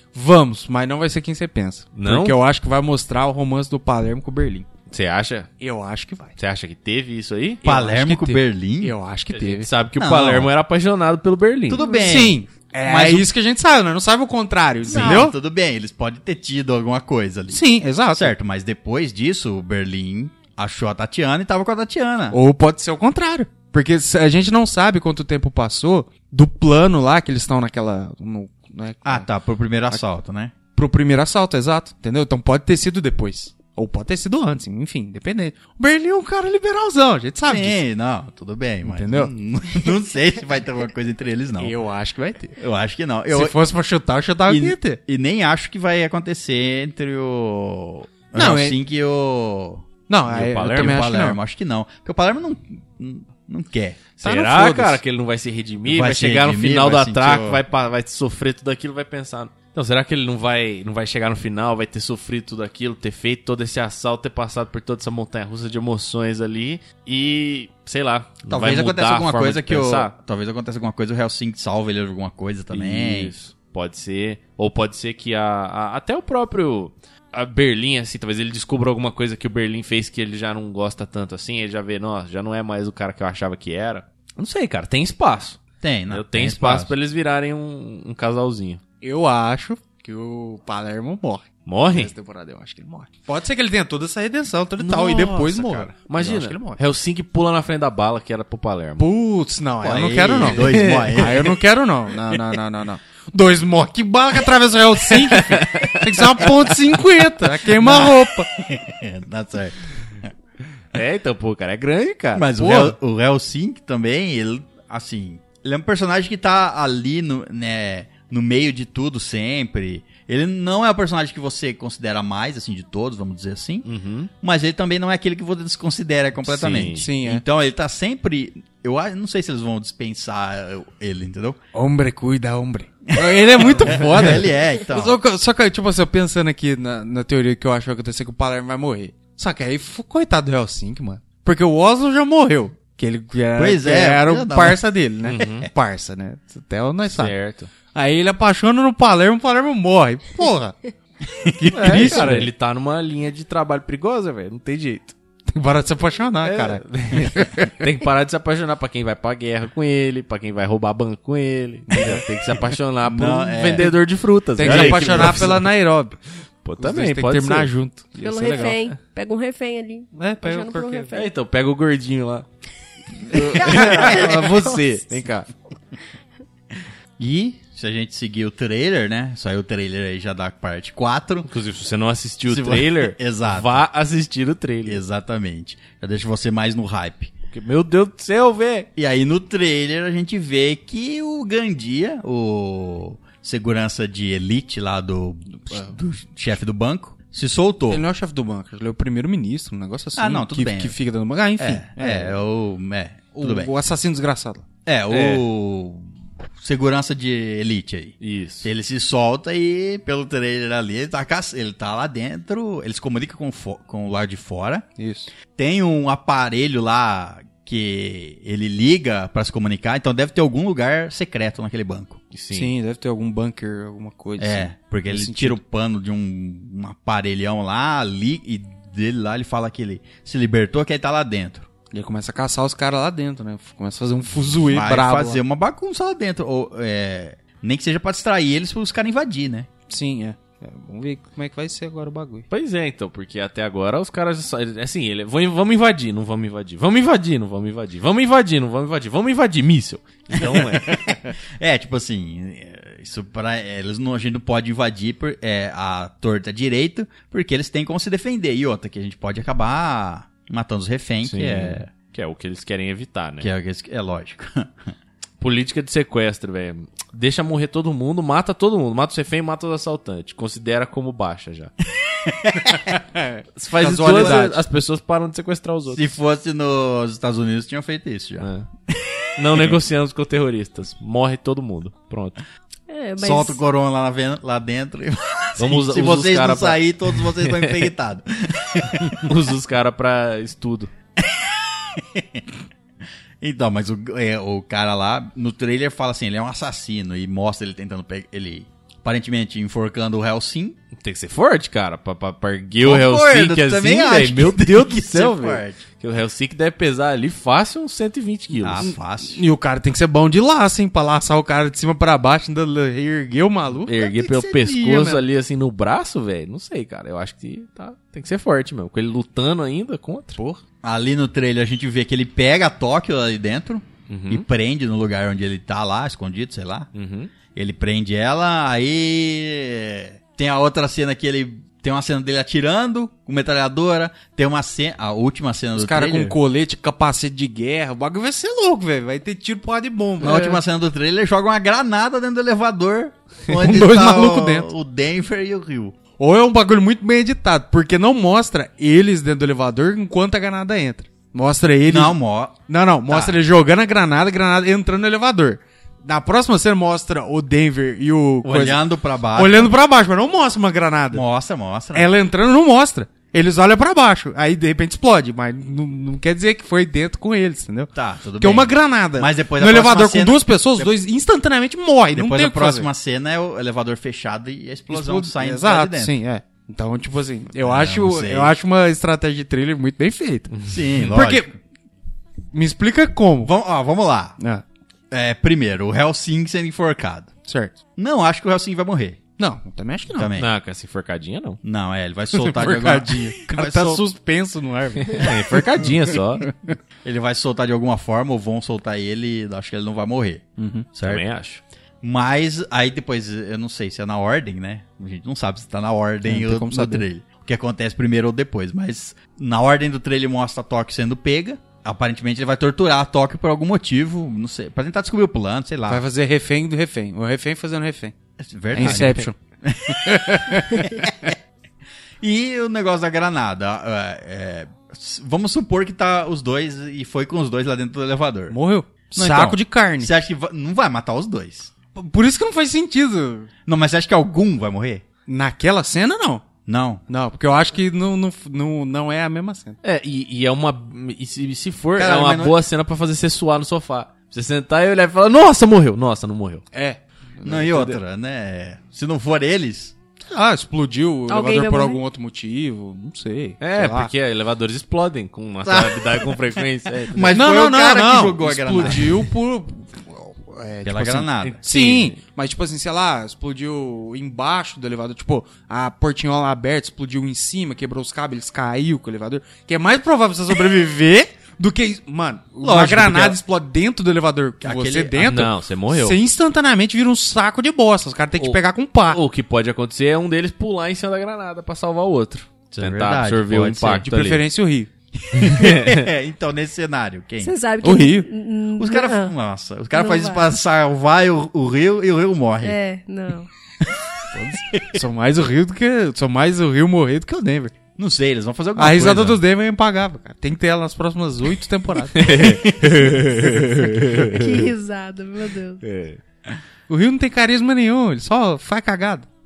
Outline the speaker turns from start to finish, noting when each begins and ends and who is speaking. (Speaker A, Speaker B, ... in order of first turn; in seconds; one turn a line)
Speaker A: 0.1-4.7
Speaker B: 1.9-2.4
Speaker B: 4.9-5.5
Speaker A: 5.6-6.3
Speaker B: 6.4-7.6
Speaker C: 7.6-8.9
Speaker A: 7.6-9.7
Speaker B: 9.3-11.9
Speaker C: 10.0-10.5
Speaker C: 11.7-13.3
Speaker D: 11.8-12.1
Speaker A: 12.0-15.3
Speaker C: 14.8-22.4
Speaker B: 14.9-15.2
Speaker A: 17.5-18.3
Speaker A: 22.3-29.3
Speaker C: 29.0-30.5
Speaker A: 30.8-37.8
Speaker C: 37.5-41.8
Speaker A: 38.9-39.3
Speaker A: 41.6-42.6
Speaker C: 42.6-43.6
Speaker A: 43.3-45.0
Speaker C: 44.5-49.9
Speaker A: 48.4-48.8
Speaker A: 50.1-51.4
Speaker B: 50.3-51.0
Speaker C: 50.5-54.0
Speaker B: 54.2-70.1
Speaker A: 54.2-55.0
Speaker C: 55.9-57.6
Speaker C: 68.5-73.3
Speaker B: 72.7-88.8
Speaker C: 85.8-86.9
Speaker A: 89.0-96.8
Speaker B: 91.7-92.1
Speaker C: 94.8-95.9
Speaker B: 94.9-95.4
Speaker B: 96.0-99.1
Speaker A: 99.0-108.5
Speaker C: 99.8-101.6
Speaker B: 100.5-101.2
Speaker B: 105.3-106.0
Speaker C: 107.7-110.3
Speaker B: 110.9-112.9
Speaker C: 112.3-123.9
Speaker B: 123.9-124.3
Speaker C: 124.4-131.6
Speaker B: 126.4-127.1
Speaker A: 127.0-127.4
Speaker A: 131.7-147.3
Speaker C: 133.1-135.2
Speaker C: 143.6-144.8
Speaker B: 145.2-145.7
Speaker B: 147.1-147.7
Speaker A: 147.9-150.8
Speaker C: 151.4-152.3
Speaker A: 151.5-152.5
Speaker B: 151.7-155.2
Speaker A: 155.5-157.8
Speaker B: 156.4-165.7
Speaker A: 161.9-162.2
Speaker C: 163.0-163.9
Speaker A: 164.6-166.2
Speaker C: 164.6-165.5
Speaker B: 166.6-167.7
Speaker A: 166.8-168.8
Speaker D: 168.2-171.3
Speaker A: 170.1-171.1
Speaker B: 171.1-172.5
Speaker A: 173.3-174.8
Speaker B: 173.3-175.5
Speaker D: 173.6-174.9
Speaker C: 177.2-181.5
Speaker B: 181.5-185.0
Speaker C: 182.5-183.8
Speaker C: 184.8-187.3
Speaker B: 187.5-188.9
Speaker C: 189.0-198.0
Speaker A: 195.7-196.0
Speaker A: 197.9-202.4
Speaker C: 200.2-201.0
Speaker C: 201.6-203.7
Speaker A: 203.3-204.6
Speaker C: 204.9-214.9
Speaker B: 205.1-205.4
Speaker B: 208.2-208.7
Speaker A: 215.0-215.3
Speaker C: 215.5-222.2
Speaker B: 222.3-222.7
Speaker A: 222.5-225.6
Speaker C: 224.4-231.7
Speaker A: 231.9-235.4
Speaker C: 234.7-239.7
Speaker A: 239.9-242.5
Speaker B: 242.5-251.0
Speaker C: 250.3-261.9
Speaker B: 261.2-263.5
Speaker C: 263.4-264.9
Speaker B: 265.4-271.7
Speaker C: 272.2-272.9
Speaker A: 272.9-274.6
Speaker B: 273.6-276.1
Speaker C: 273.8-274.5
Speaker C: 275.9-279.8
Speaker B: 278.4-278.7
Speaker B: 279.4-282.4
Speaker D: 282.9-283.6
Speaker C: 283.2-289.3
Speaker B: 285.6-287.9
Speaker B: 289.2-290.9
Speaker C: 291.2-292.4
Speaker C: 293.4-300.8
Speaker B: 301.0-308.9
Speaker C: 302.8-305.8
Speaker C: 308.6-309.4
Speaker A: 309.2-315.2
Speaker B: 313.9-320.4
Speaker C: 320.8-326.9
Speaker B: 324.1-324.4
Speaker B: 326.9-327.3
Speaker C: 327.5-336.4
Speaker A: 335.8-340.5
Speaker C: 340.2-346.0
Speaker B: 340.2-340.6
Speaker A: 343.5-344.7
Speaker A: 346.2-352.2
Speaker C: 351.9-353.4
Speaker A: 352.7-358.8
Speaker C: 358.4-359.7
Speaker A: 359.4-361.2
Speaker C: 361.1-362.1
Speaker A: 361.9-372.9
Speaker C: 367.9-370.9
Speaker C: 372.1-376.1
Speaker A: 374.9-380.5
Speaker C: 377.6-378.6
Speaker B: 380.5-381.1
Speaker C: 380.7-381.5
Speaker A: 381.1-381.5
Speaker A: 382.5-383.5
Speaker C: 383.4-384.4
Speaker C: 385.1-387.3
Speaker A: 387.5-387.8
Speaker C: 388.0-389.2
Speaker A: 389.4-390.3
Speaker C: 390.1-390.5
Speaker B: 390.4-391.6
Speaker C: 391.6-394.0
Speaker A: 392.3-395.6
Speaker B: 395.1-396.5
Speaker A: 396.4-396.8
Speaker C: 397.0-401.2
Speaker A: 400.6-400.9
Speaker B: 401.0-401.6
Speaker C: 402.0-416.0
Speaker A: 406.2-407.1
Speaker A: 415.9-418.1
Speaker C: 418.4-421.4
Speaker A: 418.7-419.4
Speaker B: 418.8-419.1
Speaker A: 419.9-421.0
Speaker C: 422.2-428.6
Speaker A: 428.5-430.1
Speaker C: 429.1-431.7
Speaker A: 431.9-433.5
Speaker C: 433.7-435.0
Speaker A: 435.3-436.4
Speaker C: 436.7-437.0
Speaker A: 437.1-439.8
Speaker B: 439.8-446.6
Speaker C: 442.0-442.6
Speaker A: 446.7-448.0
Speaker C: 447.4-449.9
Speaker A: 450.3-454.1
Speaker D: 451.3-452.0
Speaker B: 453.6-457.4
Speaker C: 455.6-456.3
Speaker C: 457.1-459.2
Speaker A: 457.3-479.2
Speaker C: 460.8-461.7
Speaker B: 461.4-462.2
Speaker C: 472.6-473.4
Speaker C: 474.6-475.3
Speaker B: 475.2-476.2
Speaker B: 478.4-484.4
Speaker C: 482.7-484.0
Speaker A: 483.9-484.9
Speaker C: 485.2-487.5
Speaker B: 485.4-486.1
Speaker D: 487.4-489.3
Speaker A: 487.8-488.3
Speaker C: 488.8-492.8
Speaker D: 489.9-490.4
Speaker D: 492.6-493.5
Speaker C: 493.8-494.9
Speaker A: 494.3-497.7
Speaker C: 498.0-499.4
Speaker A: 498.8-502.4
Speaker B: 502.1-504.7
Speaker C: 502.3-503.1
Speaker D: 504.4-505.8
Speaker B: 505.8-506.2
Speaker A: 506.9-509.3